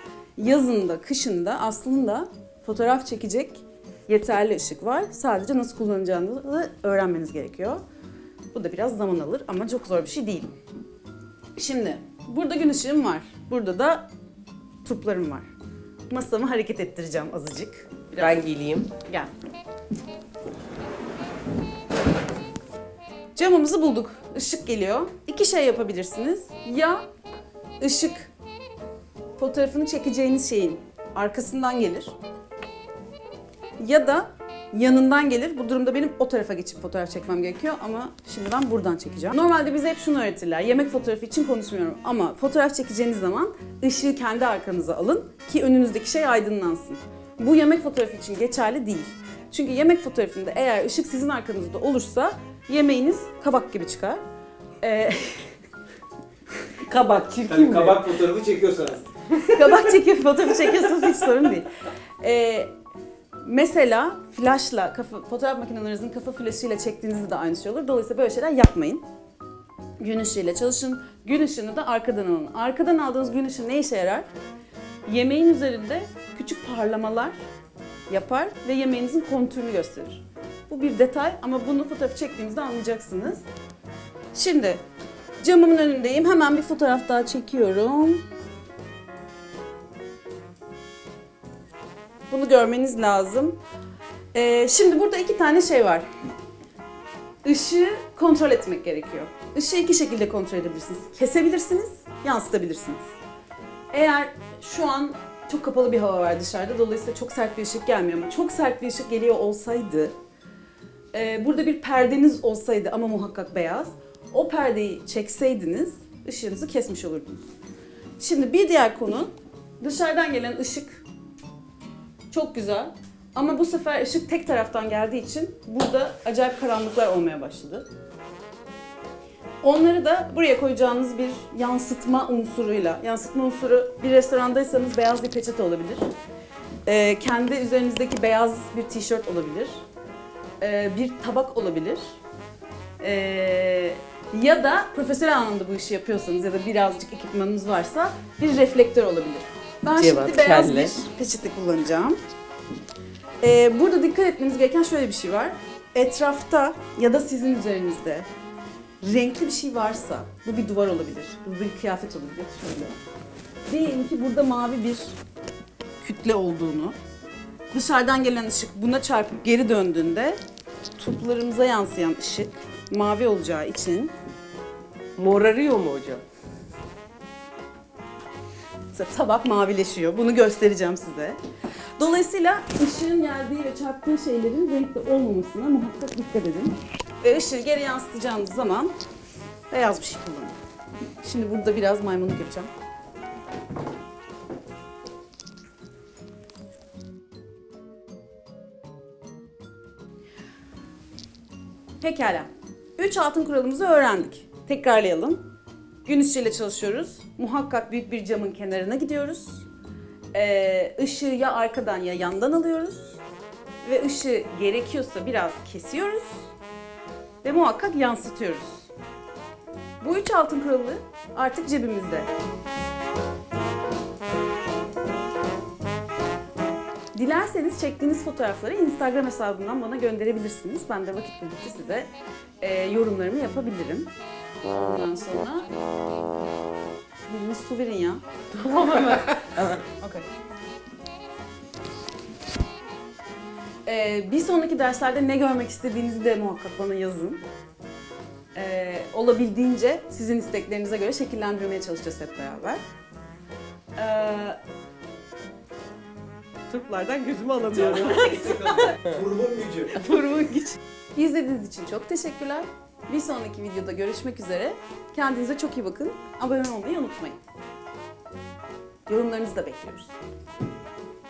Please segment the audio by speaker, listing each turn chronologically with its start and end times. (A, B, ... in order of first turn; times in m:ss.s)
0:00.4-0:07.8 A
0:08.5-0:10.5 A
0:11.6-0:14.1 A
0:14.8-0:15.5 A
0:16.1-0:18.4 A
0:18.2-0:18.9 B
0:19.0-0:19.3 A
0:23.3-0:27.0 A
0:27.8-0:28.3 A
0:29.4-0:32.1 A
0:33.8-0:54.2 A
0:54.8-0:55.5 A
0:56.8-0:58.3 B
0:57.6-0:59.0 C
0:59.4-0:59.7 B
0:59.4-1:01.7 A
1:02.2-1:02.7 A
1:03.4-1:09.0 A
1:10.0-1:14.3 A
1:15.1-1:17.4 A
1:18.1-1:23.4 A
1:24.3-1:24.8 A
1:25.4-1:28.2 A
1:32.3-1:33.6 A
1:34.3-1:36.0 A
1:37.4-1:43.0 A
1:43.9-1:50.1 A
1:51.1-1:57.5 A
1:58.2-2:01.0 A
2:02.3-2:07.9 A
2:09.6-2:16.1 A
2:16.8-2:19.8 A
2:20.6-2:22.2 A
2:23.0-2:32.2 A
2:30.0-2:31.0 B
2:33.4-2:38.3 A
2:39.0-2:43.0 A
2:43.7-2:45.2 A
2:46.0-2:47.0 A
2:47.7-2:50.4 A
2:51.0-2:54.1 A
2:55.2-2:56.2 B
2:58.9-3:01.4 A
3:02.0-3:08.9 A
3:09.7-3:10.6 A
3:11.2-3:12.7 A
3:22.0-3:25.4 A
3:26.0-3:29.6 A
3:30.3-3:33.2 A
3:33.8-3:36.3 A
3:37.4-3:38.9 A
3:40.0-3:42.3 A
3:47.1-3:52.1 A
3:52.6-3:54.1 A
3:54.6-3:55.7 A
3:57.2-4:00.2 A
3:58.7-3:59.8 B
4:03.8-4:07.4 A
4:08.5-4:12.8 A
4:14.0-4:14.6 A
4:16.7-4:19.2 B
4:18.0-4:19.0 A
4:19.1-4:19.9 C
4:19.9-4:27.4 A
4:29.1-4:30.1 A